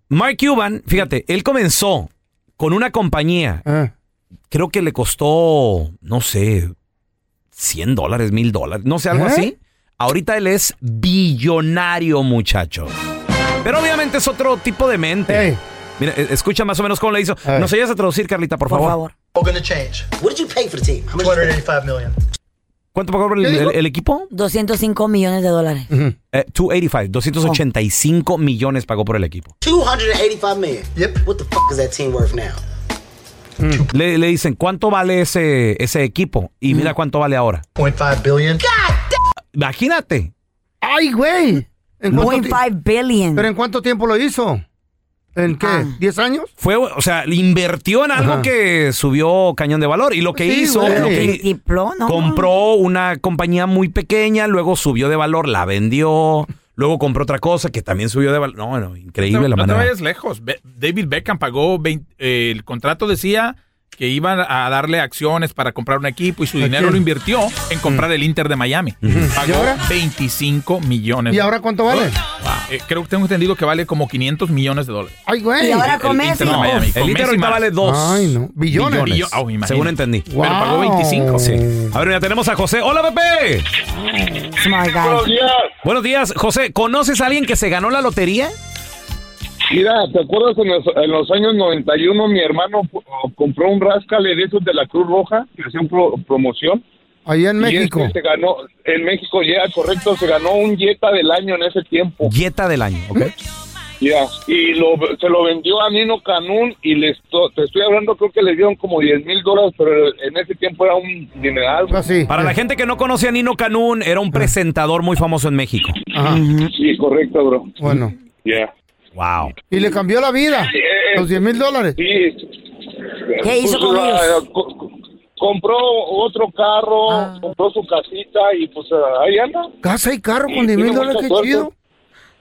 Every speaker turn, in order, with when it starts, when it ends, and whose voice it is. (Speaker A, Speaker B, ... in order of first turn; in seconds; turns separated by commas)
Speaker A: 0.1-3.6, Speaker B: 3.7-3.9, Speaker A: 4.5-6.7, Speaker A: 7.5-12.9, Speaker B: 9.1-9.5, Speaker A: 13.6-19.0, Speaker B: 15.3-15.6, Speaker C: 18.7-19.1, Speaker D: 19.4-20.1, Speaker D: 21.1-22.2, Speaker A: 22.9-24.3, Speaker B: 23.4-23.7, Speaker C: 24.3-25.9, Speaker A: 26.3-29.5, Speaker D: 30.9-31.3, Speaker D: 33.6-33.9, Speaker A: 33.9-37.6, Speaker D: 37.8-38.7, Speaker A: 39.5-40.3, Speaker B: 40.8-42.6, Speaker C: 42.1-43.5, Speaker B: 43.4-44.6, Speaker B: 45.4-46.5, Speaker C: 45.6-46.0, Speaker A: 46.6-51.5, Speaker B: 48.2-48.5, Speaker B: 50.3-51.3, Speaker C: 50.8-52.5, Speaker A: 52.1-59.9, Speaker E: 59.2-72.1, Speaker B: 66.6-67.0, Speaker A: 69.0-69.3, Speaker B: 69.0-69.8, Speaker B: 71.3-72.2, Speaker A: 72.4-72.7, Speaker E: 72.7-75.2, Speaker B: 75.3-75.9, Speaker C: 75.6-76.8, Speaker E: 75.9-77.7, Speaker A: 76.4-80.3, Speaker B: 77.8-79.4, Speaker E: 78.8-81.4, Speaker B: 80.3-81.9, Speaker A: 81.3-83.7, Speaker B: 83.9-84.5, Speaker C: 84.6-85.3, Speaker F: 85.0-85.7, Speaker A: 85.8-88.5, Speaker F: 89.7-96.8, Speaker B: 97.3-98.2, Speaker F: 97.6-102.3, Speaker A: 102.2-103.3, Speaker F: 104.0-112.0, Speaker B: 111.9-112.5, Speaker A: 112.3-116.0, Speaker B: 116.1-116.4, Speaker C: 116.2-116.7, Speaker F: 116.8-117.8, Speaker B: 117.8-118.1, Speaker F: 118.5-118.7, Speaker A: 119.2-119.5, Speaker B: 119.7-122.0, Speaker F: 120.5-121.4, Speaker F: 122.0-122.5, Speaker F: 123.3-129.7, Speaker C: 123.4-124.4, Speaker B: 129.8-131.7, Speaker F: 130.5-131.7